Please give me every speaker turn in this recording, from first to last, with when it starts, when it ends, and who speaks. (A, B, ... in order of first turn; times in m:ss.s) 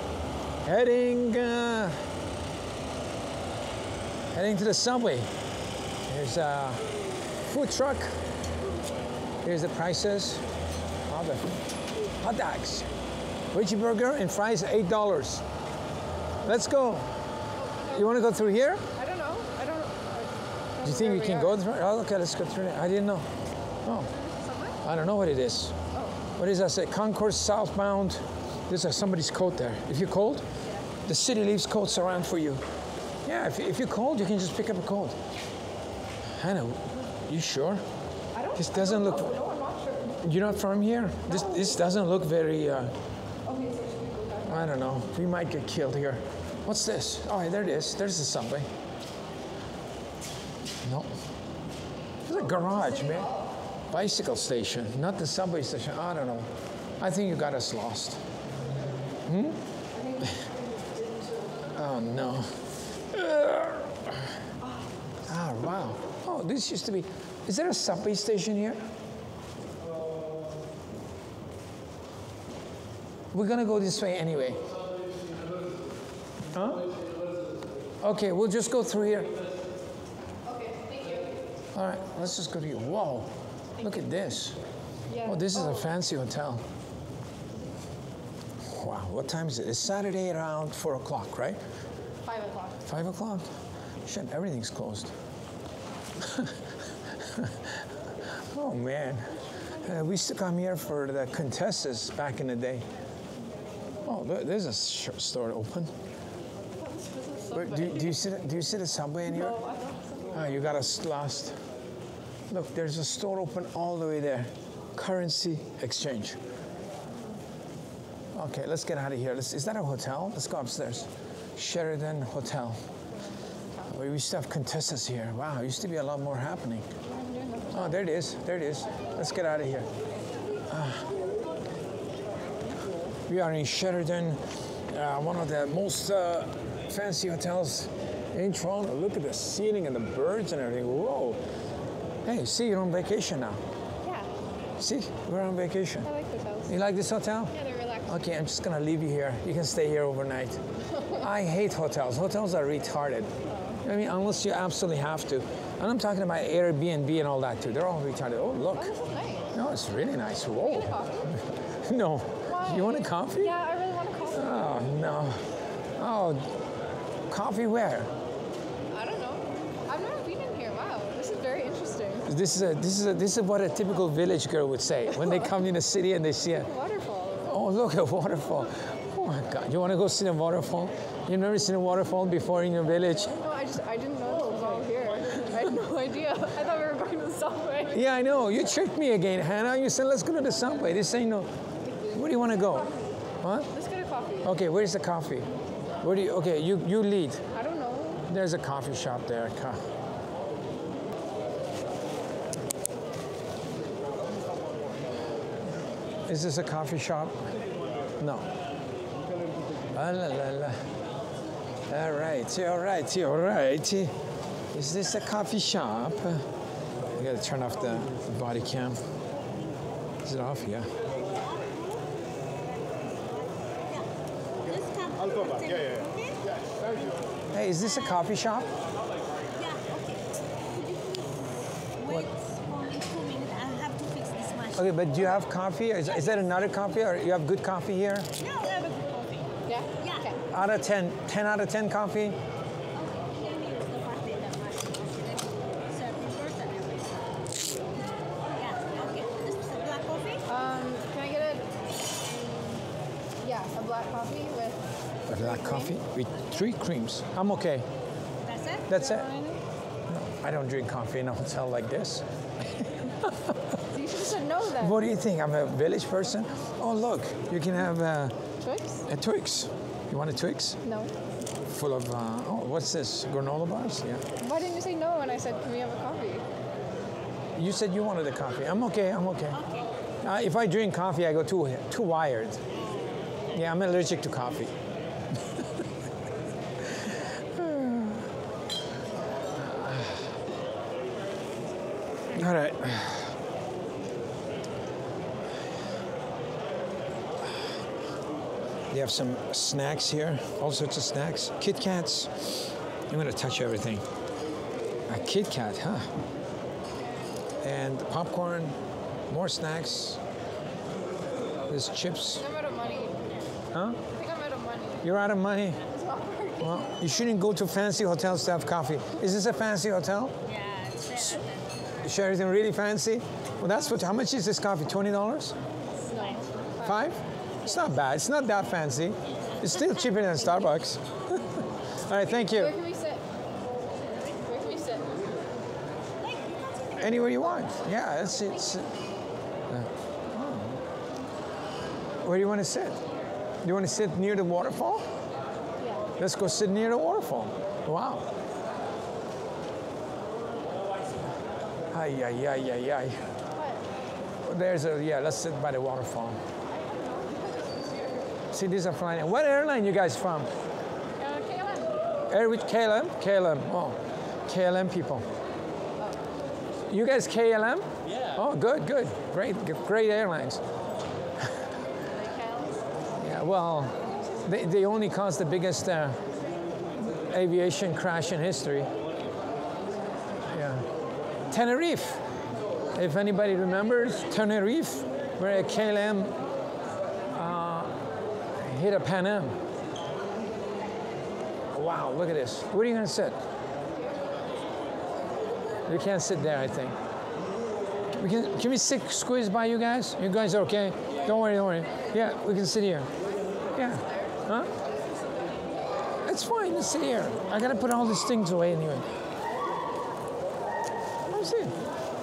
0:00.6-0:02.0 A
0:04.3-0:05.3 A
0:06.1-0:06.8 A
0:07.4-0:08.1 A
0:09.4-0:10.4 A
0:11.1-0:11.5 A
0:12.2-0:12.9 A
0:13.5-0:15.4 A
0:16.4-0:17.1 A
0:17.6-0:18.0 B
0:17.9-0:18.8 A
0:19.0-0:21.6 B
0:20.8-0:23.3 A
0:23.8-0:24.1 A
0:24.0-0:24.8 B
0:24.8-0:25.8 A
0:26.4-0:30.4 A
0:31.0-0:32.6 A
0:33.2-0:35.2 A
0:36.4-0:37.8 A
0:38.3-0:40.2 B
0:38.6-0:39.4 A
0:40.2-0:42.9 A
0:41.3-0:41.8 B
0:43.5-0:44.8 B
0:44.5-0:48.7 A
0:50.8-0:51.1 A
0:52.3-0:53.3 A
0:52.5-0:53.4 B
0:53.9-0:58.2 A
0:59.2-0:59.6 A
1:00.0-1:00.5 B
1:01.7-1:02.5 A
1:03.1-1:04.4 A
1:05.3-1:08.8 A
1:13.3-1:14.7 A
1:16.5-1:16.9 A
1:18.0-1:19.3 A
1:20.4-1:21.4 B
1:21.8-1:24.6 A
1:25.1-1:25.9 B
1:25.2-1:26.6 A
1:28.6-1:31.6 A
1:32.2-1:32.8 B
1:32.8-1:33.5 A
1:34.0-1:35.1 A
1:36.2-1:36.6 A
1:37.1-1:42.8 A
1:44.0-1:45.9 A
1:46.8-1:48.2 B
1:47.5-1:49.6 A
1:49.3-1:50.4 B
1:50.3-1:51.6 A
1:52.5-1:56.4 A
1:58.3-2:02.8 A
2:03.4-2:03.8 B
2:03.9-2:06.9 A
2:07.0-2:08.0 B
2:07.7-2:09.9 A
2:10.7-2:11.1 A
2:13.3-2:21.4 A
2:22.2-2:23.6 A
2:24.0-2:24.3 B
2:24.8-2:26.1 A
2:26.0-2:26.7 B
2:26.7-2:33.3 A
2:27.5-2:28.1 B
2:33.5-2:33.8 B
2:33.8-2:38.9 A
2:38.8-2:39.5 B
2:39.5-2:43.5 A
2:40.6-2:41.3 B
2:42.4-2:44.8 B
2:44.3-2:45.4 A
2:46.0-2:46.6 A
2:47.3-2:48.1 A
2:48.9-2:52.3 B
2:52.2-2:56.7 A
2:56.6-2:57.6 B
2:57.5-3:03.4 A
3:03.4-3:08.0 B
3:07.9-3:11.5 A
3:11.8-3:13.0 B
3:12.1-3:13.7 A
3:13.7-3:14.6 B
3:14.4-3:15.5 A
3:16.0-3:17.4 A
3:17.5-3:18.2 B
3:18.2-3:19.8 A
3:26.3-3:27.4 A
3:28.2-3:28.5 A
3:29.9-3:30.9 A
3:31.9-3:34.1 A
3:34.7-3:36.4 A
3:37.1-3:39.0 A
3:40.2-3:40.9 A
3:41.2-3:47.0 C
3:47.5-3:48.7 A
3:49.6-3:54.8 C
3:54.7-3:58.3 A
3:58.4-4:00.3 C
3:59.7-4:00.4 B
4:00.5-4:02.4 A
4:03.0-4:07.2 C
4:08.5-4:10.5 C
4:10.5-4:11.7 B
4:12.3-4:12.8 B
4:13.4-4:15.9 B
4:15.3-4:17.9 A
4:18.4-4:18.9 C
4:18.9-4:19.3 A
4:18.9-4:19.6 B
4:20.1-4:23.7 A
4:23.9-4:25.0 B
4:24.8-4:28.4 A
4:28.6-4:29.0 B
4:29.1-4:30.8 A
4:30.8-4:31.1 B
4:31.7-4:34.2 A
4:34.4-4:36.5 B
4:37.6-4:39.6 A
4:40.2-4:42.6 A
4:42.8-4:43.2 C
4:43.5-4:44.7 A
4:46.9-4:48.3 A
4:49.6-4:50.4 A
4:52.3-4:53.4 A
4:58.9-5:04.0 A
5:05.1-5:06.1 A
5:07.6-5:08.8 A
5:09.3-5:10.2 A
5:11.7-5:12.5 A
5:12.4-5:13.2 B
5:13.7-5:14.0 A
5:14.1-5:15.1 B
5:15.0-5:15.8 A
5:15.9-5:16.9 B
5:16.6-5:20.4 A
5:20.5-5:21.7 C
5:22.0-5:25.6 A
5:26.1-5:27.0 B
5:26.1-5:26.4 C
5:26.8-5:32.8 A
5:32.3-5:33.2 B
5:34.4-5:35.2 B
5:36.2-5:37.0 C
5:37.0-5:39.0 A
5:39.7-5:40.8 A
5:42.2-5:43.0 A
5:43.6-5:45.0 A
5:45.8-5:46.1 B
5:46.2-5:48.3 A
5:51.9-5:53.2 A
5:53.6-5:53.9 B
5:54.4-5:56.4 A
5:56.7-5:58.3 B
5:58.5-6:00.5 A
6:01.2-6:02.0 B
6:02.3-6:05.3 A
6:06.0-6:06.3 B
6:06.9-6:10.6 A
6:12.1-6:12.8 B
6:13.2-6:16.2 A
6:17.1-6:18.9 A
6:20.5-6:20.9 A
6:21.5-6:22.2 A
6:22.9-6:26.4 A
6:27.3-6:28.0 A
6:28.6-6:29.6 A
6:31.7-6:33.4 A
6:35.9-6:37.0 A
6:38.2-6:43.1 A
6:43.2-6:44.3 B
6:43.8-6:44.7 A
6:46.2-6:49.1 A
6:51.3-6:51.8 A